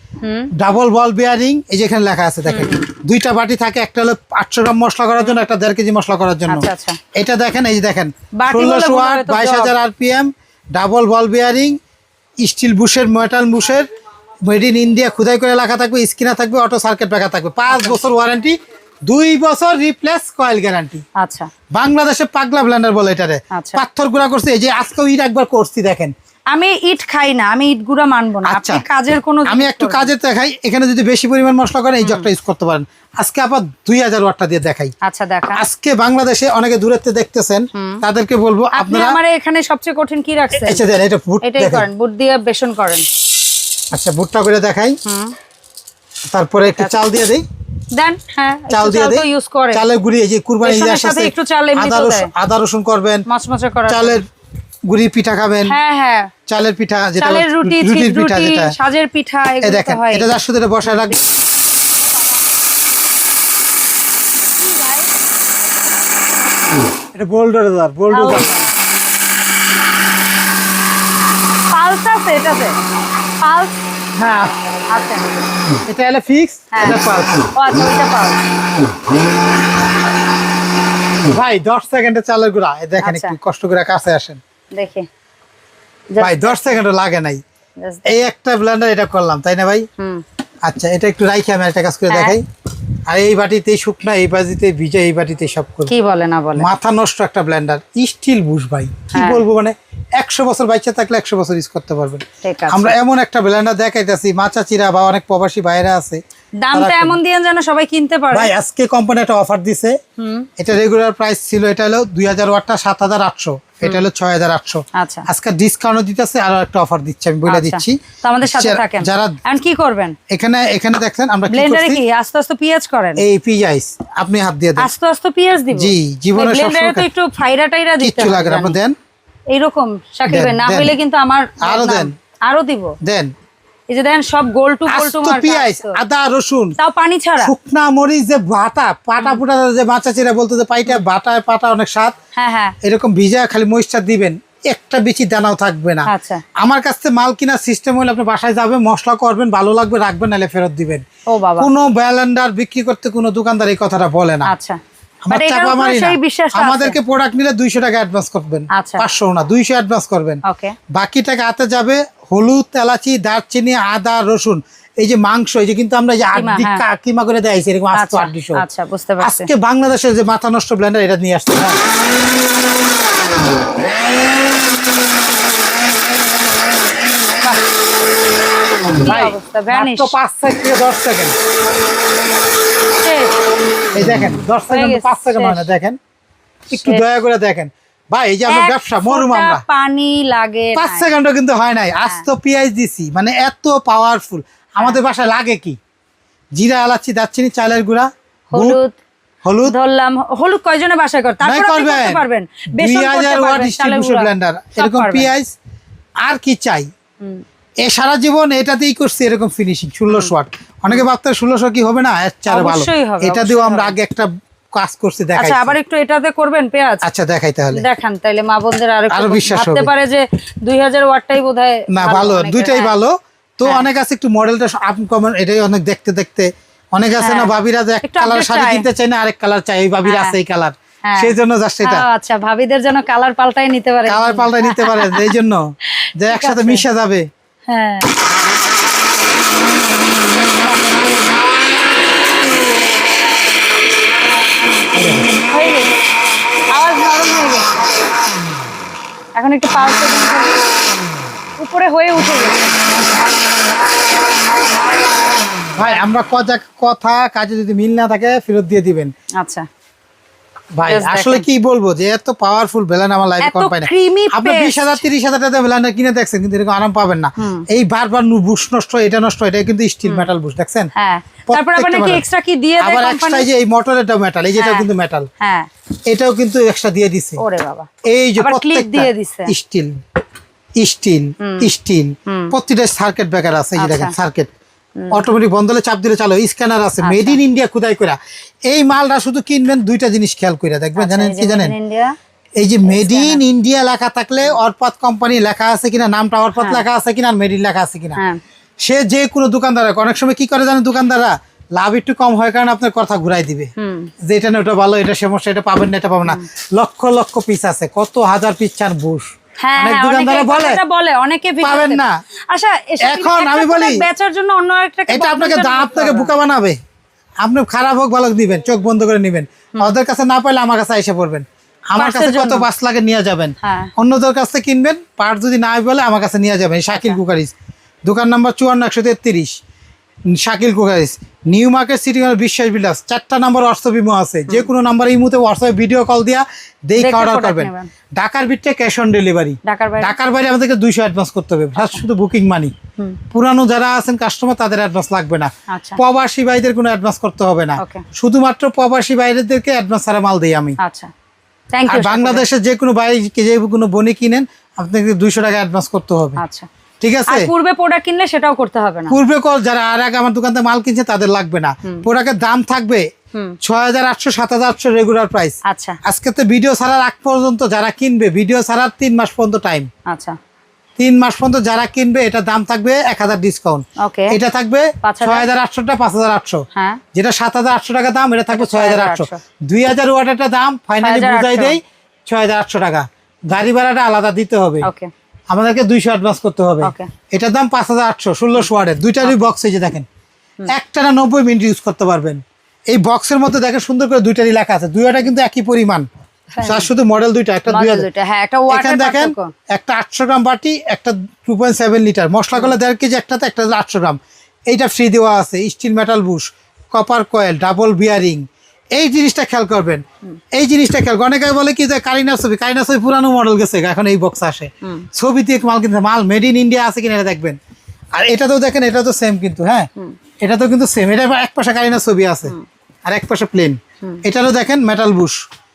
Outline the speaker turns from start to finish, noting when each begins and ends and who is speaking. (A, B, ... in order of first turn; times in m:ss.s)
0:00.2-0:00.5 A
0:00.6-0:11.8 B
0:02.5-0:02.9 A
0:06.5-0:07.0 A
0:08.4-0:09.7 A
0:12.4-0:13.9 B
0:14.4-0:21.0 B
0:17.7-0:18.0 A
0:21.2-0:21.5 A
0:21.8-0:26.1 B
0:23.5-0:23.8 A
0:26.5-0:30.1 A
0:28.4-0:28.8 B
0:29.5-0:34.9 B
0:32.0-0:32.3 A
0:35.0-0:35.6 A
0:35.6-0:39.2 B
0:37.8-0:38.0 A
0:38.7-0:40.8 A
0:40.6-0:41.9 B
0:41.4-0:43.0 A
0:43.9-0:45.0 B
0:45.1-0:45.3 A
0:46.3-0:47.4 B
0:47.9-0:49.8 A
0:48.7-0:53.2 B
0:50.6-0:52.3 A
0:53.3-0:54.2 A
0:53.9-0:54.2 B
0:54.9-0:55.8 B
0:55.7-0:56.3 A
0:56.5-0:58.7 B
0:57.2-1:00.3 A
0:59.6-1:01.2 B
1:04.6-1:05.1 A
1:07.1-1:08.5 B
1:08.1-1:08.7 A
1:11.7-1:12.8 A
1:13.4-1:13.8 A
1:14.2-1:14.5 B
1:14.9-1:15.5 A
1:15.9-1:17.5 B
1:16.7-1:17.0 A
1:17.6-1:18.4 A
1:21.2-1:24.4 B
1:23.0-1:23.4 A
1:24.8-1:25.1 A
1:26.1-1:26.8 A
1:26.2-1:27.4 B
1:27.8-1:28.2 A
1:28.1-1:29.9 B
1:30.7-1:32.4 B
1:32.1-1:32.4 A
1:33.1-1:35.9 B
1:35.9-1:36.7 A
1:36.6-1:46.2 B
1:39.1-1:39.4 A
1:42.4-1:43.0 A
1:46.6-1:48.5 A
1:46.7-1:47.2 B
1:48.3-1:50.0 B
1:50.2-1:50.5 A
1:50.6-1:59.4 B
1:54.9-1:55.3 A
1:57.5-2:00.2 A
2:00.3-2:02.0 B
2:01.5-2:03.2 A
2:03.2-2:04.9 B
2:04.8-2:08.8 A
2:05.7-2:07.1 B
2:08.0-2:09.0 B
2:09.5-2:13.0 A
2:10.3-2:11.0 B
2:11.6-2:12.1 B
2:13.0-2:13.3 B
2:13.9-2:16.0 A
2:14.9-2:16.8 B
2:16.8-2:17.5 A
2:17.4-2:22.1 B
2:22.4-2:22.8 A
2:22.8-2:31.0 B
2:26.1-2:26.4 A
2:31.3-2:31.7 A
2:31.6-2:34.5 B
2:34.4-2:34.8 A
2:35.2-2:40.4 B
2:35.3-2:37.0 A
2:38.7-2:39.0 A
2:40.4-2:40.8 A
2:40.9-2:48.6 B
2:46.4-2:46.8 A
2:47.9-2:49.5 A
2:49.2-2:51.8 B
2:59.0-3:01.4 B
2:59.0-3:00.1 A
3:03.0-3:03.3 A
3:03.9-3:06.0 B
3:04.7-3:05.7 A
3:06.7-3:09.6 B
3:06.7-3:07.0 A
3:08.5-3:11.1 A
3:10.8-3:15.8 B
3:16.6-3:18.8 B
3:18.5-3:19.0 A
3:19.4-3:19.8 B
3:19.6-3:25.3 A
3:21.4-3:22.2 B
3:22.8-3:25.5 B
3:26.2-3:26.9 B
3:27.8-3:35.7 B
3:32.5-3:34.0 A
3:35.4-3:37.0 A
3:37.0-3:37.8 B
3:37.7-3:42.9 A
3:39.1-3:39.9 B
3:41.9-3:52.0 B
3:47.2-3:47.5 A
3:48.0-3:48.9 A
3:50.0-3:50.4 A
3:51.0-3:51.3 A
3:51.8-3:55.3 A
3:54.1-3:55.7 B
3:56.0-3:56.8 A
3:56.2-3:57.3 B
3:57.7-3:58.1 A
4:00.5-4:01.1 A
4:04.9-4:05.3 B
4:05.4-4:05.9 A
4:06.7-4:07.7 A
4:09.4-4:10.6 A
4:11.6-4:12.8 A
4:15.7-4:19.1 B
4:19.4-4:19.7 A
4:20.8-4:30.9 B
4:20.8-4:21.4 A
4:23.4-4:25.0 A
4:27.4-4:27.7 A
4:31.0-4:33.5 A
4:31.5-4:32.2 B
4:32.8-4:35.3 B
4:34.6-4:34.9 A
4:35.4-4:35.7 A
4:36.1-4:37.4 B
4:37.4-4:37.9 A
4:38.0-4:40.0 B
4:38.4-4:39.5 A
4:40.8-4:44.5 B
4:41.4-4:41.7 A
4:42.3-4:42.5 A
4:43.8-4:44.1 A
4:45.0-4:45.2 A
4:45.1-4:51.7 B
4:47.0-4:47.4 A
4:51.0-4:52.1 A
4:52.6-4:58.2 B
4:52.8-4:53.4 A
4:56.6-4:56.8 A
4:58.8-5:03.7 B
5:03.8-5:04.1 A
5:04.3-5:10.8 B
5:09.6-5:16.3 A
5:11.6-5:12.2 B
5:13.0-5:14.1 B
5:15.1-5:16.8 B
5:17.4-5:27.5 B
5:22.0-5:22.7 A
5:23.6-5:23.9 A
5:28.1-5:29.6 B
5:30.3-5:42.7 B
5:37.0-5:37.9 A
5:39.6-5:40.1 A
5:43.3-5:50.8 B
5:45.7-5:46.0 A
5:47.8-5:48.0 A
5:50.8-5:51.1 A
5:51.7-5:52.4 A
5:51.9-5:56.4 B
5:56.4-5:56.7 A
5:57.0-5:57.5 B
5:57.3-5:59.2 A
5:59.1-6:03.1 B
6:03.6-6:09.9 B
6:05.6-6:06.0 A
6:10.1-6:10.4 A
6:11.0-6:24.9 B
6:14.0-6:14.4 A
6:15.0-6:15.5 A
6:16.8-6:17.0 A
6:18.5-6:19.4 A
6:21.0-6:21.8 A
6:24.8-6:25.1 A
6:25.5-6:30.1 B
6:26.8-6:27.1 A
6:29.2-6:29.5 A
6:30.7-6:36.1 B
6:36.6-6:36.9 A
6:36.6-6:38.1 B
6:37.7-6:39.5 A
6:38.7-6:57.6 B
6:58.1-6:59.9 B
7:00.4-7:02.5 B
7:03.1-7:05.4 B